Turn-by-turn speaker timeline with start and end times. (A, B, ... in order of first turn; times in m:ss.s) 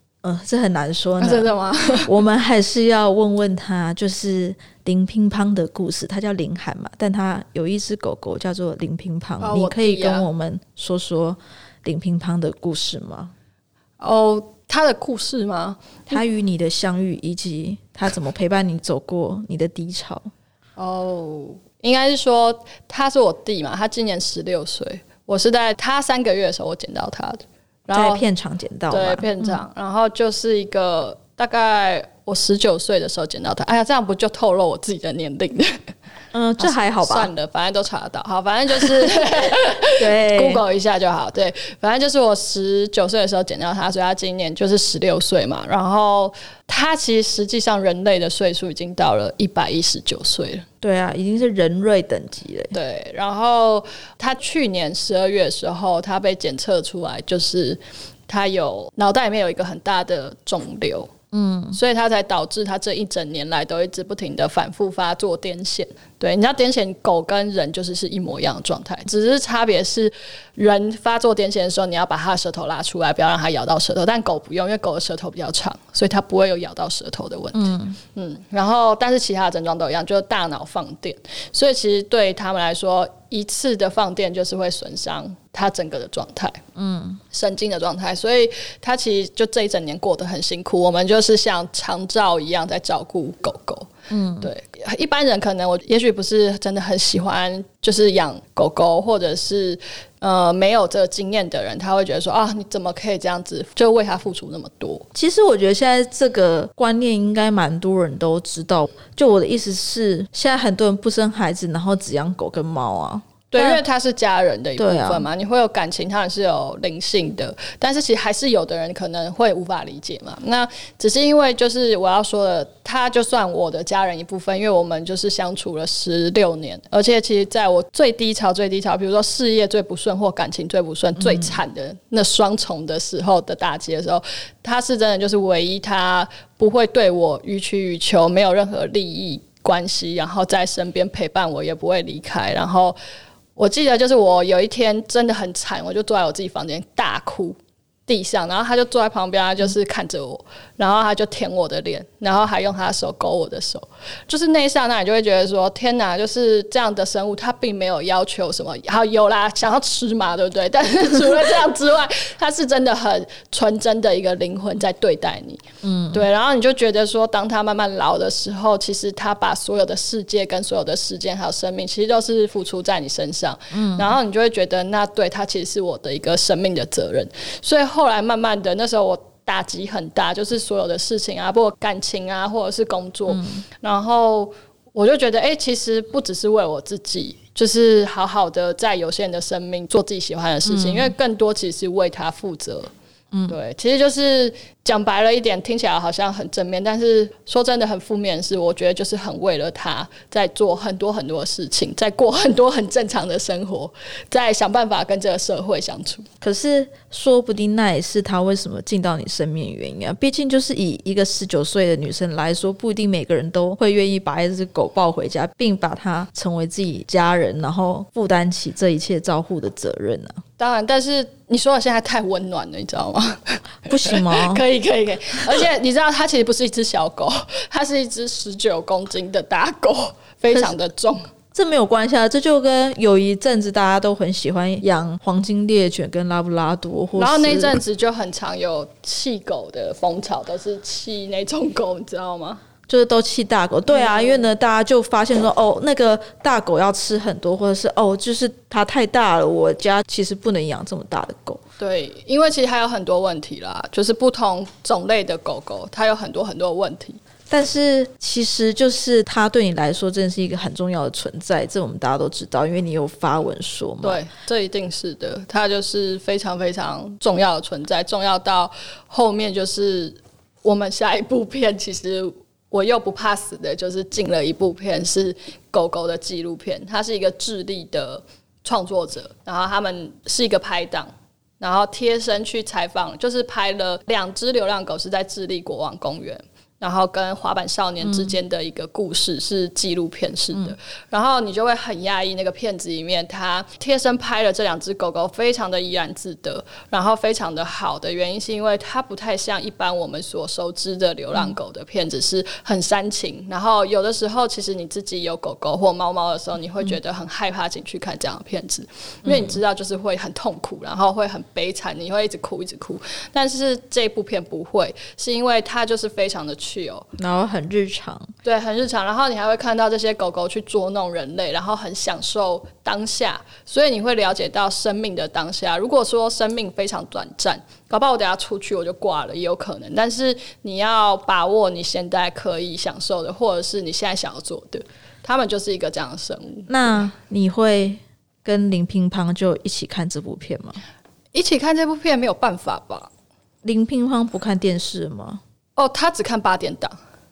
0:00.2-0:01.5 A
0:01.2-0:02.1 B
0:02.0-0:13.3 A
0:09.4-0:10.3 B
0:14.0-0:16.2 B
0:16.1-0:20.3 A
0:20.8-0:28.2 B
0:27.9-0:29.6 A
0:28.9-0:35.9 B
0:36.3-0:37.3 A
0:36.6-0:50.6 B
0:40.0-0:40.6 A
0:50.8-0:52.7 A
0:52.7-1:01.1 B
1:01.3-1:01.8 A
1:01.7-1:26.6 B
1:17.5-1:18.0 A
1:26.8-1:27.2 A
1:27.3-1:45.0 B
1:34.1-1:34.5 A
1:45.1-1:53.8 A
1:53.5-2:23.0 B
1:54.8-1:55.3 A
2:11.2-2:11.6 A
2:23.6-3:12.9 B
2:45.8-2:46.2 A
2:53.7-2:54.2 A
3:03.3-3:03.6 A
3:10.7-3:11.1 A
3:13.5-3:26.3 B
3:26.4-3:40.4 A
3:40.6-3:51.2 B
3:43.9-3:44.6 A
3:51.5-3:57.8 A
3:57.2-4:02.6 B
4:02.9-4:11.6 A
4:03.9-4:04.4 B
4:11.8-4:17.2 B
4:17.5-4:24.2 A
4:24.0-5:17.0 B
4:48.0-4:48.3 A
5:09.3-5:09.6 A
5:17.2-5:18.3 A
5:18.4-5:36.7 B
5:36.7-5:40.8 A
5:41.3-5:43.1 B
5:43.6-5:45.4 A
5:45.8-5:47.0 B